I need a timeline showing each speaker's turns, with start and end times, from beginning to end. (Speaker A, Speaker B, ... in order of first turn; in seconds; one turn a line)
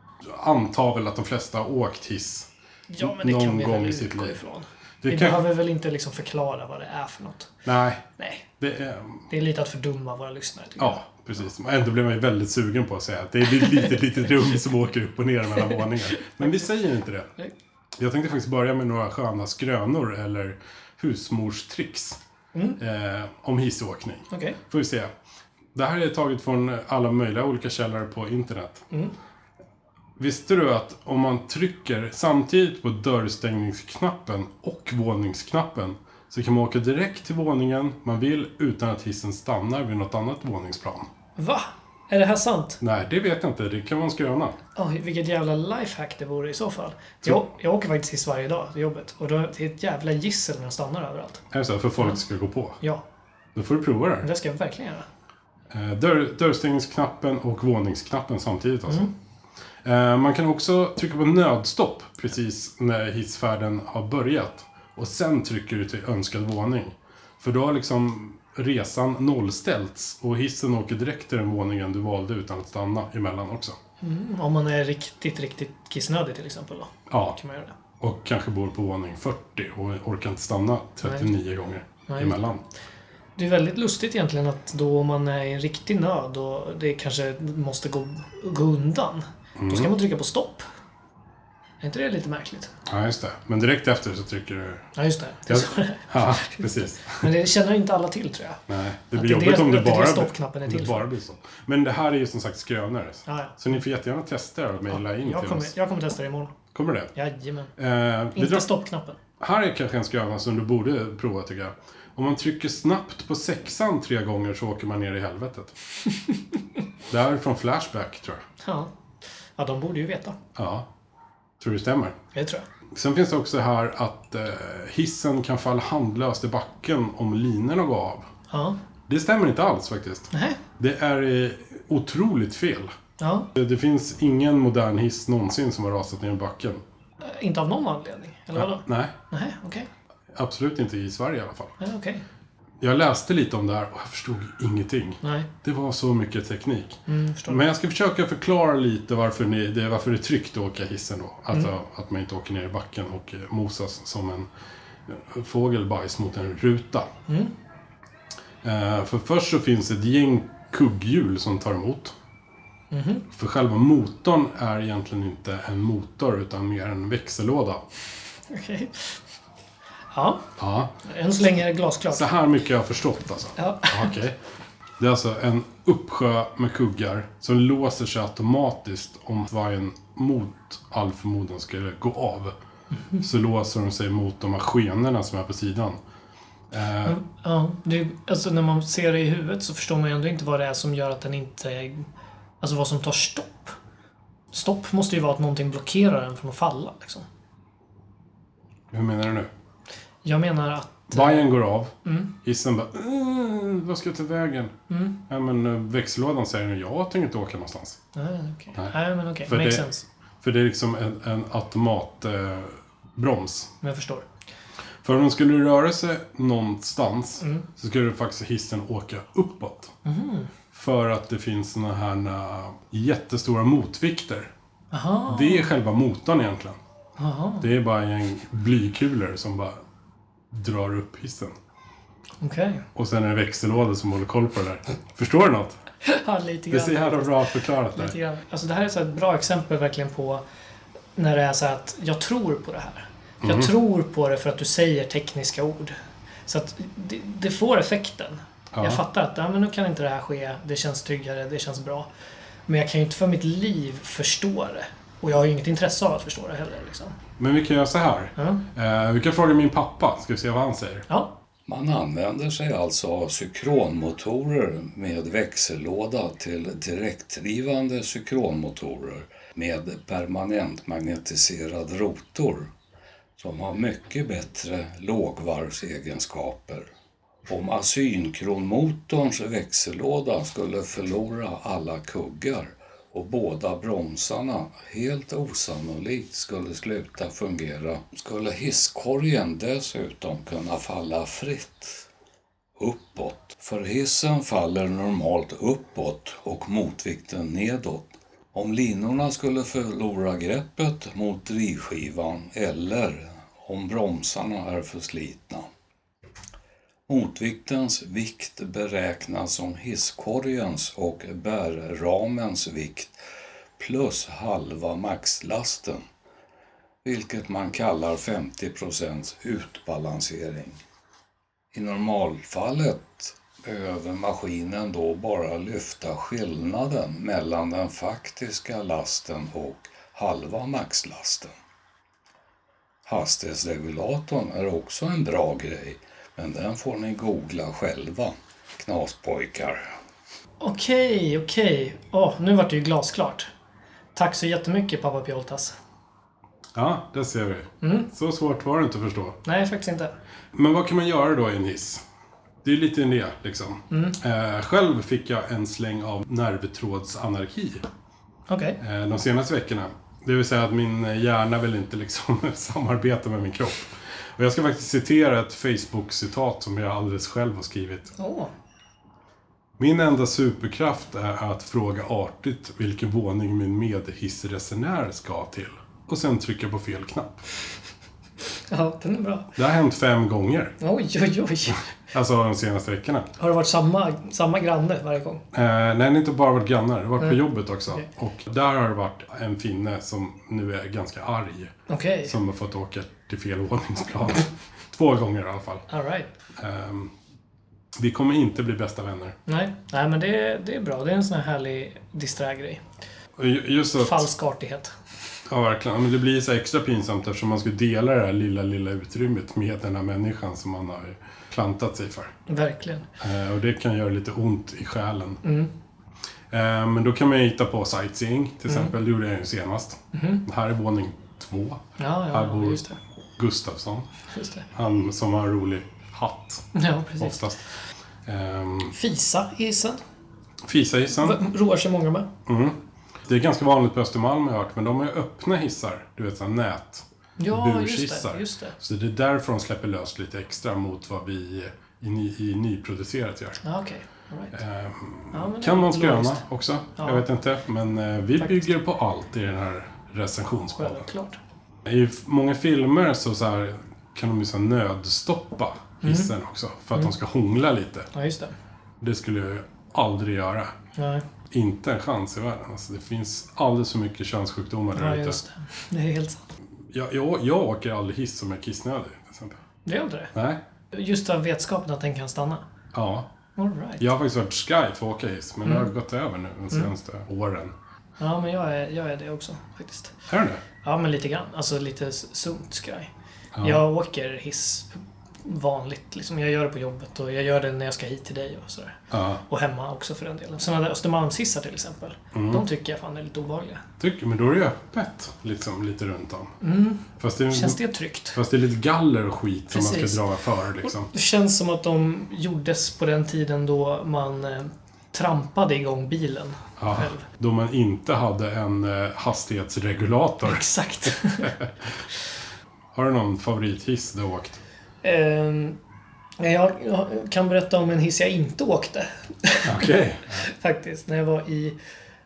Speaker A: 0.2-4.4
Speaker B: 2.9-7.5
Speaker A: 5.0-5.5
Speaker A: 7.6-8.1
Speaker B: 8.2-8.4
Speaker A: 8.6-9.3
Speaker B: 9.3-11.1
Speaker A: 10.8-17.3
Speaker B: 15.8-16.6
Speaker A: 18.0-22.2
Speaker B: 22.5-22.8
Speaker A: 22.8-25.1
Speaker B: 24.3-24.6
Speaker A: 25.7-28.8
Speaker A: 30.2-41.1
Speaker B: 41.4-42.8
Speaker A: 42.8-44.6
Speaker B: 44.8-51.4
Speaker A: 51.5-52.8
Speaker A: 53.5-54.3
Speaker B: 54.2-55.1
Speaker A: 55.7-59.1
Speaker A: 59.8-73.8
Speaker B: 74.0-77.7
Speaker A: 77.1-77.4
Speaker A: 78.0-82.6
Speaker B: 81.0-81.3
Speaker B: 82.1-82.4
Speaker B: 83.4-90.7
Speaker A: 89.6-89.9
Speaker B: 91.8-92.7
Speaker A: 92.8-94.9
Speaker B: 95.0-98.6
Speaker A: 95.5-97.3
Speaker A: 98.7-105.7
Speaker B: 99.1-101.1
Speaker B: 103.3-103.6
Speaker B: 104.9-106.5
Speaker A: 106.7-107.1
Speaker B: 107.1-107.7
Speaker A: 107.8-108.7
Speaker B: 108.3-109.2
Speaker A: 109.4-115.7
Speaker A: 117.1-118.4
Speaker B: 118.6-118.9
Speaker B: 119.6-120.4
Speaker A: 120.5-120.9
Speaker A: 121.6-122.2
Speaker B: 122.3-122.7
Speaker A: 122.9-128.3
Speaker B: 128.5-128.8
Speaker A: 129.1-132.9
Speaker B: 130.3-130.6
Speaker B: 133.2-133.5
Speaker A: 133.5-136.8
Speaker B: 137.2-139.9
Speaker A: 138.5-139.1
Speaker A: 140.3-141.7
Speaker B: 141.8-142.2
Speaker A: 142.8-154.5
Speaker B: 145.2-145.5
Speaker B: 147.1-147.6
Speaker A: 155.1-157.1
Speaker A: 158.6-162.1
Speaker B: 162.9-163.2
Speaker A: 163.3-167.8
Speaker B: 168.5-169.2
Speaker B: 170.1-170.5
Speaker A: 170.6-171.0
Speaker B: 171.0-172.3
Speaker A: 172.1-174.4
Speaker B: 173.6-174.1
Speaker A: 175.0-182.5
Speaker A: 183.2-186.0
Speaker A: 186.7-187.2
Speaker B: 187.0-192.1
Speaker B: 192.6-193.8
Speaker B: 194.5-197.2
Speaker A: 198.9-199.5
Speaker B: 200.2-201.5
Speaker A: 201.1-208.0
Speaker B: 202.0-202.3
Speaker B: 204.9-205.2
Speaker B: 208.1-210.0
Speaker A: 208.8-209.8
Speaker A: 210.4-213.7
Speaker B: 213.8-214.2
Speaker A: 215.0-219.9
Speaker B: 217.4-217.7
Speaker B: 220.0-220.5
Speaker A: 220.7-224.5
Speaker B: 224.9-225.7
Speaker A: 225.3-226.8
Speaker B: 227.2-227.7
Speaker A: 227.6-229.8
Speaker A: 230.5-231.6
Speaker B: 232.4-232.8
Speaker A: 232.9-235.8
Speaker B: 236.0-240.4
Speaker A: 236.7-238.2
Speaker B: 241.2-252.1
Speaker A: 243.4-243.7
Speaker A: 248.7-249.0
Speaker B: 252.7-257.2
Speaker A: 257.4-261.1
Speaker B: 258.4-258.6
Speaker B: 261.1-261.3
Speaker C: 261.7-272.7
Speaker C: 273.4-276.9
Speaker C: 277.5-292.1
Speaker C: 292.8-305.7
Speaker C: 307.1-313.1
Speaker C: 313.8-316.0
Speaker C: 317.0-320.8
Speaker C: 321.7-331.5
Speaker C: 333.0-339.9
Speaker B: 340.6-343.5
Speaker B: 344.1-345.7
Speaker A: 346.7-349.4
Speaker B: 347.8-348.1
Speaker B: 349.4-350.1
Speaker A: 350.5-352.0
Speaker A: 352.6-357.9
Speaker B: 353.9-354.2
Speaker B: 358.5-358.8
Speaker A: 358.8-368.1
Speaker B: 368.2-368.5
Speaker A: 369.8-377.4
Speaker B: 378.7-379.6
Speaker A: 379.6-380.8
Speaker B: 380.8-381.8
Speaker A: 382.1-383.3
Speaker B: 383.4-385.4
Speaker A: 385.5-391.7
Speaker B: 391.9-392.3
Speaker A: 392.2-395.9
Speaker B: 395.9-396.3
Speaker A: 396.6-397.1
Speaker A: 397.9-399.4
Speaker B: 399.5-402.8
Speaker A: 403.4-404.3
Speaker B: 404.0-404.9
Speaker A: 405.5-412.3
Speaker B: 412.5-413.1
Speaker A: 413.2-415.4
Speaker B: 415.4-415.7
Speaker A: 416.5-422.8
Speaker B: 418.7-418.9
Speaker B: 420.1-420.4
Speaker B: 422.0-423.0
Speaker A: 423.4-424.1
Speaker B: 424.3-424.6
Speaker A: 424.7-426.6
Speaker B: 426.7-427.4
Speaker A: 427.2-427.6
Speaker A: 428.2-428.9
Speaker B: 428.9-430.0
Speaker A: 430.6-431.4
Speaker B: 431.2-432.3
Speaker A: 432.4-443.6
Speaker B: 437.4-438.8
Speaker B: 443.6-444.6
Speaker A: 444.5-451.1
Speaker B: 445.3-446.4
Speaker B: 447.0-447.2
Speaker B: 448.4-448.7
Speaker B: 450.7-451.4
Speaker A: 451.8-458.1
Speaker B: 456.0-456.3
Speaker B: 458.1-458.5
Speaker A: 459.0-460.7
Speaker B: 460.9-461.2
Speaker A: 461.5-465.4
Speaker B: 464.9-466.4
Speaker A: 466.9-469.6
Speaker B: 469.9-470.3
Speaker A: 470.3-470.6
Speaker B: 470.9-472.6
Speaker A: 472.9-473.3
Speaker B: 473.6-474.0
Speaker A: 474.0-477.7
Speaker B: 478.2-480.1
Speaker A: 480.3-480.6
Speaker B: 480.8-483.1
Speaker A: 483.5-483.8
Speaker B: 483.6-493.8
Speaker A: 489.1-489.4
Speaker A: 492.3-492.6
Speaker A: 494.0-496.5
Speaker B: 496.6-498.4
Speaker A: 497.2-497.8
Speaker A: 498.3-501.1
Speaker B: 499.7-500.2
Speaker B: 500.8-507.2
Speaker A: 506.8-511.7
Speaker B: 510.4-511.5
Speaker A: 512.9-514.6
Speaker B: 515.0-515.8
Speaker B: 516.4-521.8
Speaker A: 519.6-520.4